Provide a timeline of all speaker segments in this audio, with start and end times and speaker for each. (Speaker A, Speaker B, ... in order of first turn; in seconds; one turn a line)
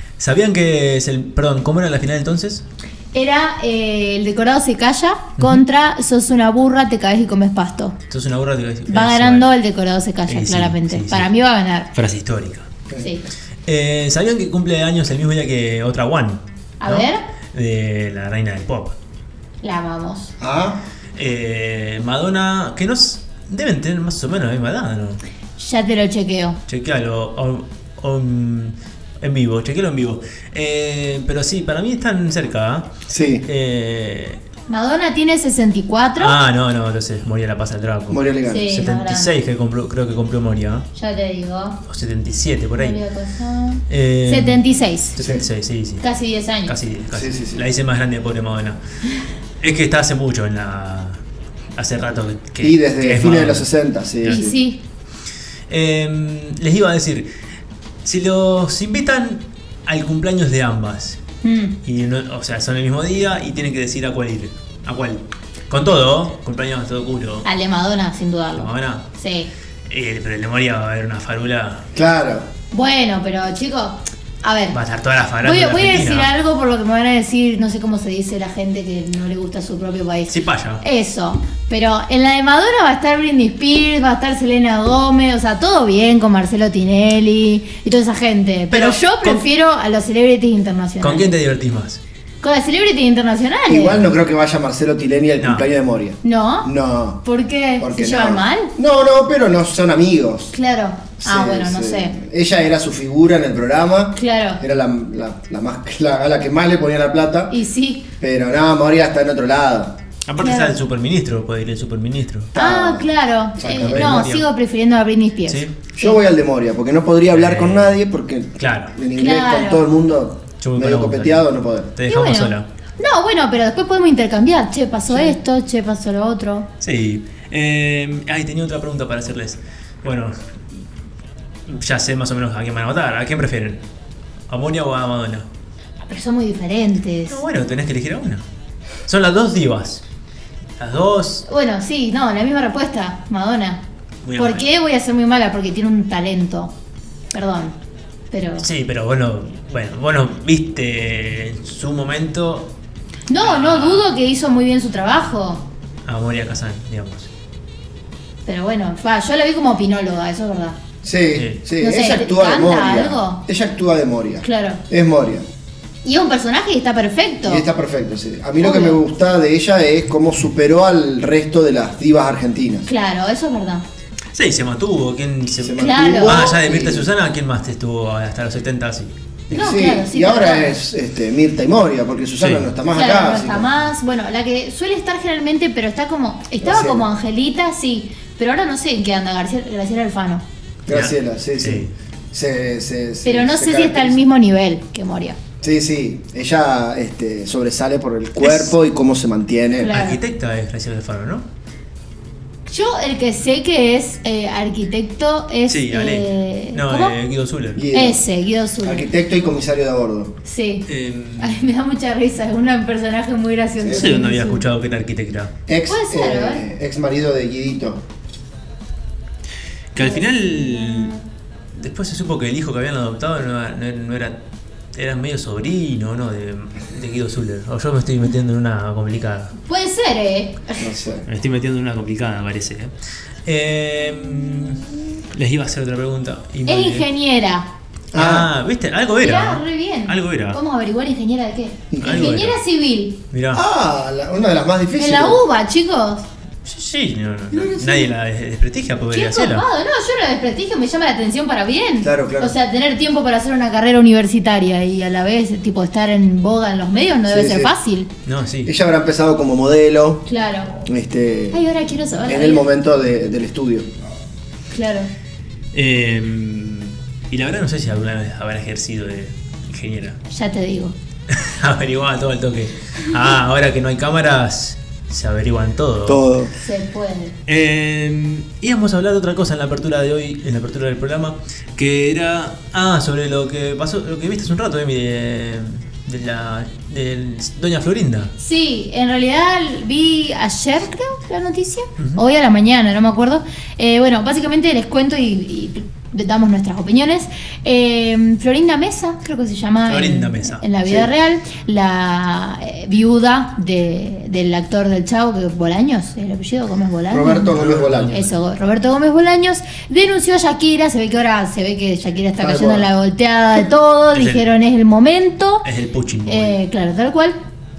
Speaker A: 0.2-2.6
Speaker B: 3.1-8.0
Speaker A: 8.1-9.5
Speaker B: 8.9-11.9
Speaker A: 10.3-11.3
Speaker A: 11.9-12.7
Speaker B: 13.0-13.3
Speaker A: 13.7-18.9
Speaker B: 16.8-17.2
Speaker B: 19.6-20.3
Speaker C: 20.4-20.8
Speaker A: 21.1-25.2
Speaker B: 25.6-26.6
Speaker A: 26.7-32.9
Speaker C: 33.1-33.5
Speaker A: 33.4-34.4
Speaker B: 34.7-36.4
Speaker A: 36.2-40.9
Speaker C: 38.1-38.6
Speaker B: 38.5-39.4
Speaker B: 40.9-41.8
Speaker A: 41.9-43.0
Speaker B: 42.7-45.2
Speaker A: 43.9-46.0
Speaker C: 45.2-45.4
Speaker B: 46.0-46.8
Speaker A: 46.6-48.8
Speaker C: 47.1-47.6
Speaker A: 49.6-51.2
Speaker A: 51.8-53.7
Speaker C: 52.6-54.6
Speaker B: 54.2-54.8
Speaker A: 55.7-57.3
Speaker A: 58.0-61.2
Speaker B: 61.4-61.8
Speaker A: 61.8-67.5
Speaker B: 67.4-69.5
Speaker A: 68.5-69.0
Speaker A: 69.9-71.8
Speaker C: 71.9-72.5
Speaker B: 72.7-74.8
Speaker A: 74.7-76.3
Speaker B: 75.4-91.3
Speaker A: 80.3-80.8
Speaker A: 88.7-89.4
Speaker A: 91.0-92.0
Speaker B: 92.4-94.1
Speaker C: 93.7-97.2
Speaker A: 95.4-95.7
Speaker B: 96.2-98.7
Speaker C: 97.8-100.5
Speaker B: 100.5-102.2
Speaker C: 101.2-107.5
Speaker B: 104.1-104.6
Speaker B: 107.5-108.0
Speaker C: 108.2-110.0
Speaker A: 110.2-112.5
Speaker B: 110.4-110.8
Speaker C: 112.5-113.1
Speaker B: 112.5-116.2
Speaker C: 113.6-114.3
Speaker A: 113.6-114.5
Speaker A: 115.5-115.8
Speaker C: 115.9-121.9
Speaker A: 117.3-118.0
Speaker A: 118.6-118.9
Speaker B: 119.1-119.9
Speaker A: 120.6-122.7
Speaker B: 122.0-126.7
Speaker C: 125.1-125.4
Speaker A: 126.8-130.3
Speaker A: 131.7-133.8
Speaker A: 134.5-135.5
Speaker B: 136.0-137.4
Speaker A: 137.3-138.4
Speaker A: 139.1-140.0
Speaker A: 140.8-141.4
Speaker B: 141.4-143.8
Speaker A: 144.2-144.7
Speaker B: 144.3-146.7
Speaker B: 147.3-147.8
Speaker B: 148.3-148.7
Speaker A: 148.6-152.7
Speaker B: 153.3-155.7
Speaker A: 153.3-154.1
Speaker A: 156.0-157.3
Speaker B: 158.4-160.8
Speaker C: 161.0-165.4
Speaker A: 161.3-161.6
Speaker B: 161.8-163.4
Speaker B: 164.4-164.8
Speaker B: 166.0-167.6
Speaker C: 167.4-172.9
Speaker B: 168.6-169.0
Speaker B: 172.8-173.8
Speaker A: 174.3-179.6
Speaker C: 175.6-177.1
Speaker B: 175.8-176.5
Speaker C: 179.5-183.7
Speaker B: 179.5-180.8
Speaker A: 182.4-182.7
Speaker B: 182.9-190.4
Speaker C: 186.6-187.1
Speaker C: 190.8-194.2
Speaker A: 190.9-191.9
Speaker B: 193.2-195.4
Speaker C: 195.6-199.9
Speaker A: 198.4-198.7
Speaker B: 199.8-200.2
Speaker A: 199.8-201.4
Speaker B: 202.7-207.2
Speaker A: 205.7-207.9
Speaker C: 207.8-208.2
Speaker B: 207.9-209.1
Speaker C: 208.8-210.3
Speaker B: 210.4-214.7
Speaker A: 210.9-211.7
Speaker C: 213.8-214.1
Speaker A: 213.9-215.5
Speaker C: 215.7-218.0
Speaker B: 215.9-216.7
Speaker A: 219.9-221.2
Speaker B: 220.0-221.2
Speaker A: 221.7-224.4
Speaker A: 224.9-229.5
Speaker B: 229.6-230.9
Speaker C: 230.8-231.3
Speaker A: 231.2-232.9
Speaker A: 233.4-237.1
Speaker B: 236.7-237.7
Speaker C: 238.1-238.5
Speaker A: 238.1-240.6
Speaker B: 239.2-243.2
Speaker C: 241.9-242.3
Speaker A: 242.0-242.6
Speaker A: 243.3-243.6
Speaker C: 243.5-245.4
Speaker B: 244.9-246.2
Speaker A: 246.6-249.6
Speaker B: 247.5-248.1
Speaker B: 249.1-258.1
Speaker C: 252.0-252.6
Speaker C: 257.3-257.7
Speaker A: 258.2-258.7
Speaker C: 258.6-260.2
Speaker B: 260.2-260.8
Speaker C: 260.8-261.6
Speaker B: 261.5-262.7
Speaker C: 262.2-263.9
Speaker B: 264.7-265.1
Speaker A: 265.7-270.2
Speaker B: 270.3-270.9
Speaker A: 271.3-276.2
Speaker C: 276.1-276.5
Speaker B: 276.6-277.4
Speaker A: 277.5-288.3
Speaker B: 288.4-307.6
Speaker A: 299.9-300.6
Speaker C: 300.8-301.1
Speaker C: 307.1-308.1
Speaker A: 307.5-308.4
Speaker B: 308.1-315.7
Speaker C: 312.4-312.9
Speaker A: 314.1-314.5
Speaker A: 315.6-316.6
Speaker B: 316.2-317.4